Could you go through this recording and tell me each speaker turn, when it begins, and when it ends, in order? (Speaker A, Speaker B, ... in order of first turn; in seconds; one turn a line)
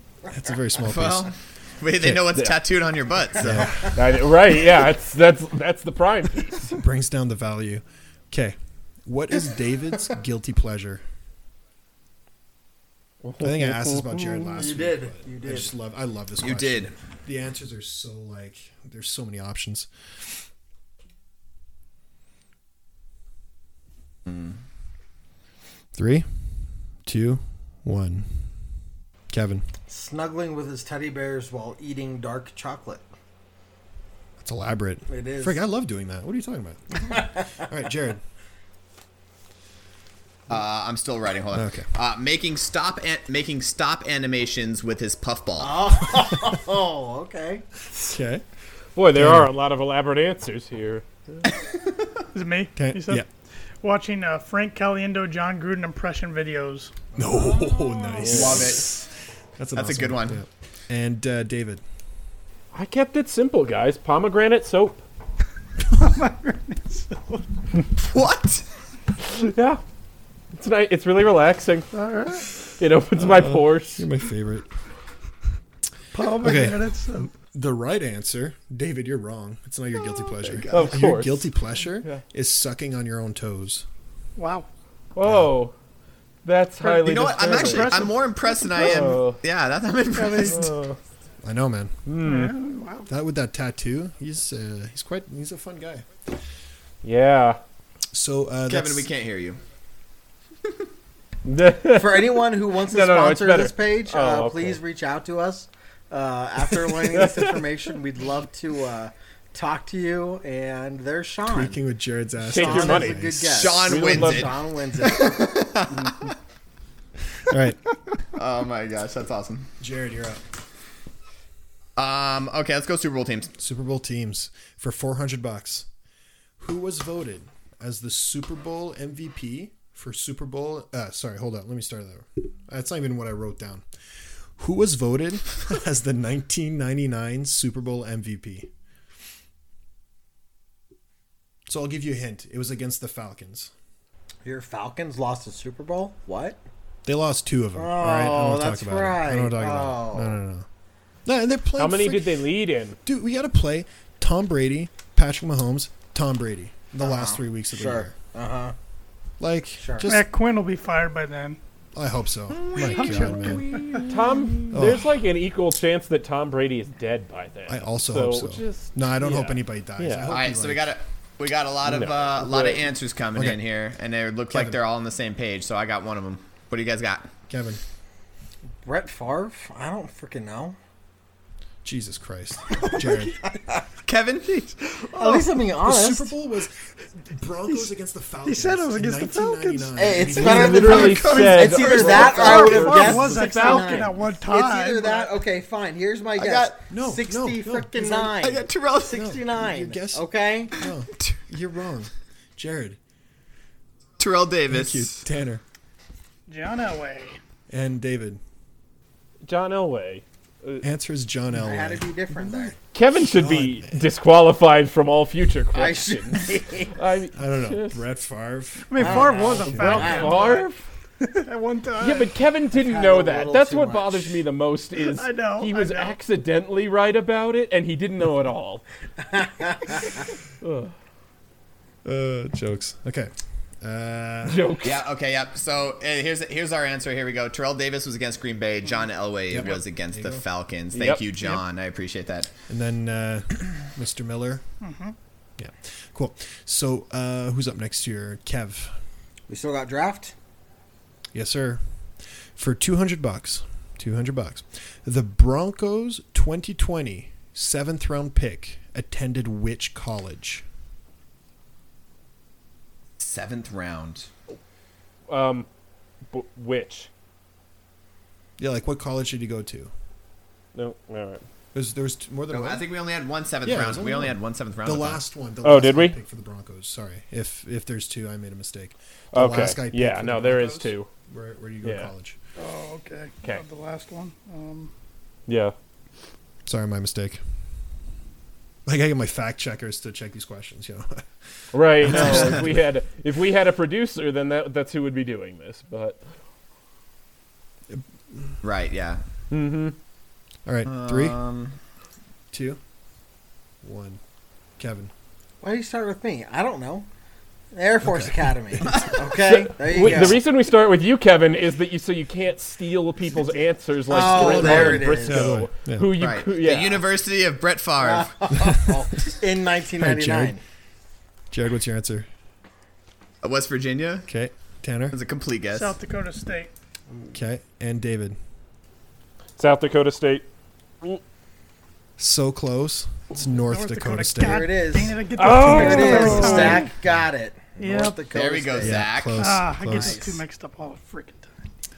Speaker A: 0.3-1.3
Speaker B: 0.8-3.8
Speaker A: 2.0-2.3
Speaker C: 2.2-2.6
Speaker A: 3.4-4.0
Speaker C: 3.9-6.8
Speaker A: 6.7-11.0
Speaker C: 13.2-14.6
Speaker A: 13.4-19.9
Speaker D: 14.6-15.7
Speaker B: 16.4-16.9
Speaker B: 24.3-24.5
Speaker A: 25.9-26.3
Speaker A: 27.1-28.5
Speaker A: 29.3-29.7
Speaker D: 29.9-33.0
Speaker A: 34.4-38.2
Speaker D: 35.1-35.6
Speaker D: 37.0-37.6
Speaker B: 40.5-45.8
Speaker A: 41.5-41.9
Speaker D: 45.6-47.6
Speaker A: 47.9-48.4
Speaker C: 49.0-51.1
Speaker A: 49.1-49.5
Speaker E: 52.3-53.3
Speaker A: 52.7-53.3
Speaker E: 53.8-56.9
Speaker D: 57.1-58.5
Speaker A: 57.1-61.8
Speaker C: 58.2-58.6
Speaker B: 58.3-59.0
Speaker B: 59.7-60.4
Speaker C: 62.7-65.0
Speaker E: 65.9-67.4
Speaker B: 68.0-68.6
Speaker C: 69.2-69.8
Speaker C: 70.5-71.9
Speaker E: 71.9-72.5
Speaker C: 72.8-74.0
Speaker A: 73.2-74.7
Speaker E: 76.1-77.3
Speaker A: 76.2-83.8
Speaker B: 80.4-80.9
Speaker C: 80.7-81.5
Speaker E: 84.4-84.7
Speaker C: 85.1-85.7
Speaker A: 85.2-85.6
Speaker C: 86.4-88.1
Speaker E: 86.8-89.1
Speaker B: 87.0-90.7
Speaker C: 88.7-89.4
Speaker E: 90.1-90.7
Speaker C: 90.5-91.0
Speaker A: 91.4-92.0
Speaker C: 92.1-92.5
Speaker E: 92.2-93.1
Speaker A: 93.1-96.1
Speaker C: 97.0-97.6
Speaker A: 98.1-99.1
Speaker B: 98.7-99.6
Speaker C: 101.4-104.8
Speaker D: 101.9-111.8
Speaker C: 107.1-107.6
Speaker A: 111.5-114.2
Speaker C: 112.4-113.2
Speaker D: 112.5-115.3
Speaker B: 113.5-116.3
Speaker C: 113.8-114.5
Speaker C: 115.9-116.3
Speaker A: 117.5-117.8
Speaker B: 118.3-119.7
Speaker A: 119.8-120.4
Speaker B: 122.0-123.5
Speaker A: 123.6-125.9
Speaker A: 126.6-133.8
Speaker A: 134.6-138.7
Speaker A: 141.7-143.7
Speaker D: 144.4-146.6
Speaker A: 147.0-150.7
Speaker D: 147.8-150.4
Speaker A: 151.2-152.4
Speaker C: 151.8-153.0
Speaker A: 153.0-158.2
Speaker D: 157.0-158.7
Speaker A: 159.4-160.3
Speaker D: 159.8-160.1
Speaker E: 160.1-161.6
Speaker A: 161.9-163.6
Speaker E: 162.8-164.1
Speaker C: 163.9-170.3
Speaker A: 164.7-165.1
Speaker A: 167.7-171.0
Speaker B: 170.3-177.3
Speaker C: 171.8-172.8
Speaker A: 173.3-173.6
Speaker A: 174.5-174.8
Speaker A: 177.5-177.8
Speaker D: 178.8-180.8
Speaker A: 181.8-183.4
Speaker B: 184.1-185.1
Speaker D: 185.2-186.3
Speaker A: 185.8-192.8
Speaker E: 188.4-190.1
Speaker D: 190.0-200.8
Speaker C: 190.3-193.9
Speaker E: 190.7-195.3
Speaker B: 190.8-191.6
Speaker B: 196.4-196.8
Speaker A: 196.9-198.3
Speaker B: 198.2-199.2
Speaker A: 199.1-203.0
Speaker B: 204.2-205.2
Speaker A: 204.7-205.6
Speaker E: 206.5-207.4
Speaker A: 207.7-208.4
Speaker C: 209.4-210.8
Speaker A: 210.8-214.1
Speaker D: 211.5-212.8
Speaker C: 212.9-216.4
Speaker D: 215.7-216.9
Speaker C: 216.9-218.0
Speaker A: 217.3-220.3
Speaker E: 218.9-222.3
Speaker D: 219.0-220.6
Speaker C: 219.7-220.8
Speaker C: 222.0-228.8
Speaker D: 222.7-224.4
Speaker E: 225.0-226.2
Speaker D: 229.2-230.2
Speaker C: 230.6-230.9
Speaker A: 232.0-234.8
Speaker C: 234.5-235.0
Speaker B: 234.8-242.5
Speaker A: 239.5-240.4
Speaker C: 240.9-241.2
Speaker A: 242.7-244.6
Speaker E: 244.8-245.1
Speaker A: 245.6-248.9
Speaker D: 249.5-250.3
Speaker A: 251.3-251.8
Speaker A: 252.6-260.6
Speaker B: 263.2-264.3
Speaker C: 265.3-265.7
Speaker C: 266.3-267.1
Speaker A: 268.6-269.9
Speaker C: 270.7-271.4
Speaker A: 271.7-272.9
Speaker B: 272.5-275.2
Speaker A: 273.6-282.4
Speaker C: 275.6-276.1
Speaker C: 279.3-281.1
Speaker C: 281.8-282.1
Speaker E: 282.6-284.9
Speaker C: 285.5-285.7
Speaker A: 286.6-287.4
Speaker A: 288.9-292.8
Speaker C: 291.7-296.2
Speaker A: 297.9-298.6
Speaker B: 298.6-299.2
Speaker C: 299.5-299.9
Speaker A: 300.6-301.4
Speaker B: 300.8-301.8
Speaker A: 302.5-302.8
Speaker A: 303.8-304.2
Speaker A: 304.8-305.1
Speaker D: 305.6-307.1
Speaker D: 307.7-310.4
Speaker A: 308.0-309.0
Speaker B: 308.9-309.1
Speaker C: 309.4-317.0
Speaker A: 310.0-310.3
Speaker D: 314.1-315.6
Speaker B: 314.2-315.0
Speaker A: 314.6-316.1
Speaker B: 316.2-318.3
Speaker D: 318.0-320.6
Speaker A: 318.7-319.0
Speaker A: 320.0-320.6
Speaker A: 321.5-322.3
Speaker B: 323.4-324.3
Speaker A: 324.3-325.1
Speaker B: 325.1-326.0
Speaker E: 325.7-326.7
Speaker A: 327.3-328.4
Speaker C: 329.6-330.5
Speaker A: 332.2-334.8
Speaker E: 333.5-336.9
Speaker D: 334.4-339.1
Speaker C: 335.4-336.8
Speaker A: 336.1-336.8
Speaker E: 337.8-338.2
Speaker B: 338.3-339.6
Speaker A: 338.8-340.2
Speaker E: 339.3-341.6
Speaker D: 339.8-340.4